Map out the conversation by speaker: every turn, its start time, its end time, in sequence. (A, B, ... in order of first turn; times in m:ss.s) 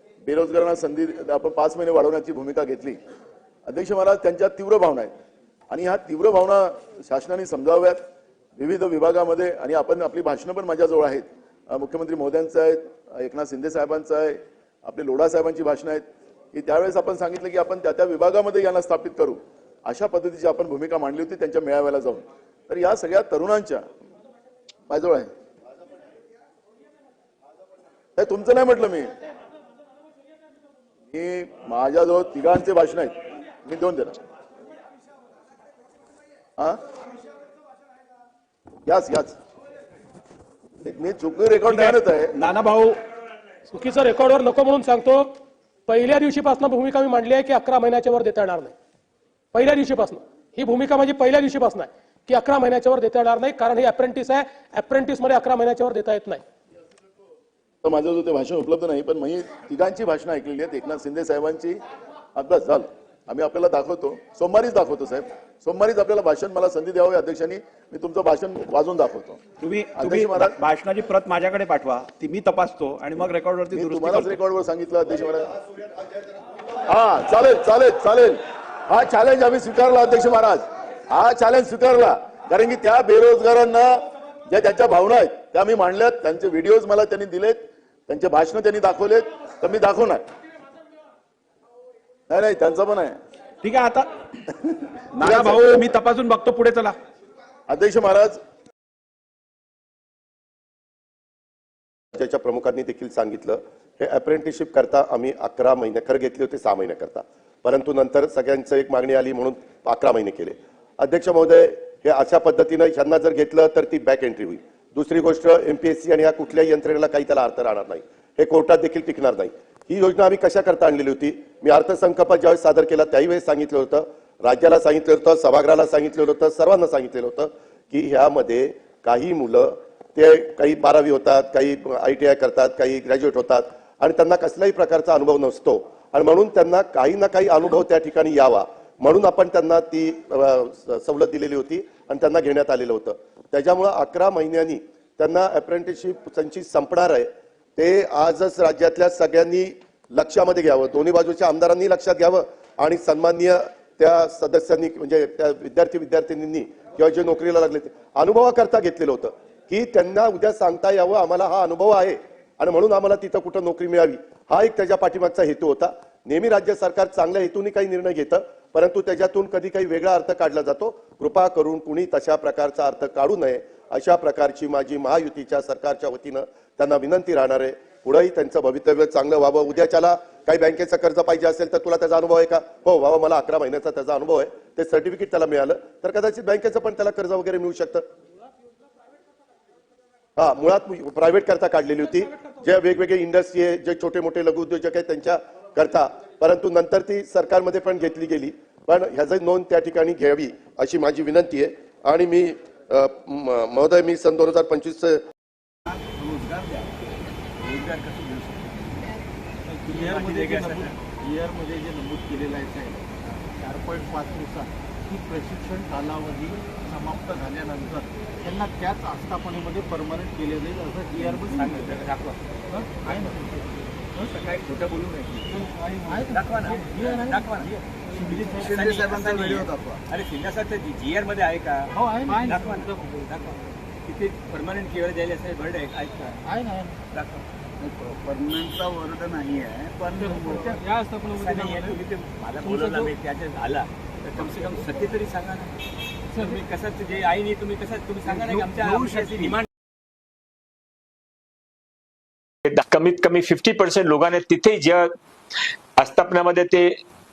0:00.2-0:03.0 A
0:03.7-0:05.1 A
0:05.7-0:08.0 A
0:08.6-0:23.8 A
0:24.9-0:25.3 A
0:28.2-0:29.1 A
0:31.1-0:34.2 A
0:38.8-0:39.4 A
0:40.8-0:42.4 A
0:41.7-0:43.0 B
0:43.7-0:45.3 C
0:45.9-0:48.7 C
0:49.5-0:56.4 C
0:57.8-1:01.8 A
1:02.4-1:09.4 A
1:09.6-1:14.4 B
1:09.9-1:10.6 A
1:13.7-1:15.6 A
1:16.8-1:30.2 A
1:32.3-1:33.2 A
1:33.6-1:34.1 B
1:35.1-1:35.6 A
1:35.2-1:37.0 B
1:37.7-1:38.4 A
1:42.1-3:08.0 D
3:10.4-3:25.2 D
3:27.6-3:29.1 E
3:29.8-3:31.0 E
3:29.8-3:33.0 F
3:33.6-3:41.9 F
3:41.2-3:42.4 E
3:42.7-3:43.7 F
3:44.2-3:56.4 E
3:45.5-3:47.5 F
3:48.2-3:48.5 F
3:48.6-3:50.0 G
3:51.9-3:53.2 F
3:56.5-3:56.9 F
3:57.1-3:57.4 E
3:57.8-4:00.6 G
4:00.3-4:00.8 F
4:01.2-4:05.7 E
4:06.3-4:09.6 E
4:12.6-4:15.1 H
4:16.0-4:17.0 H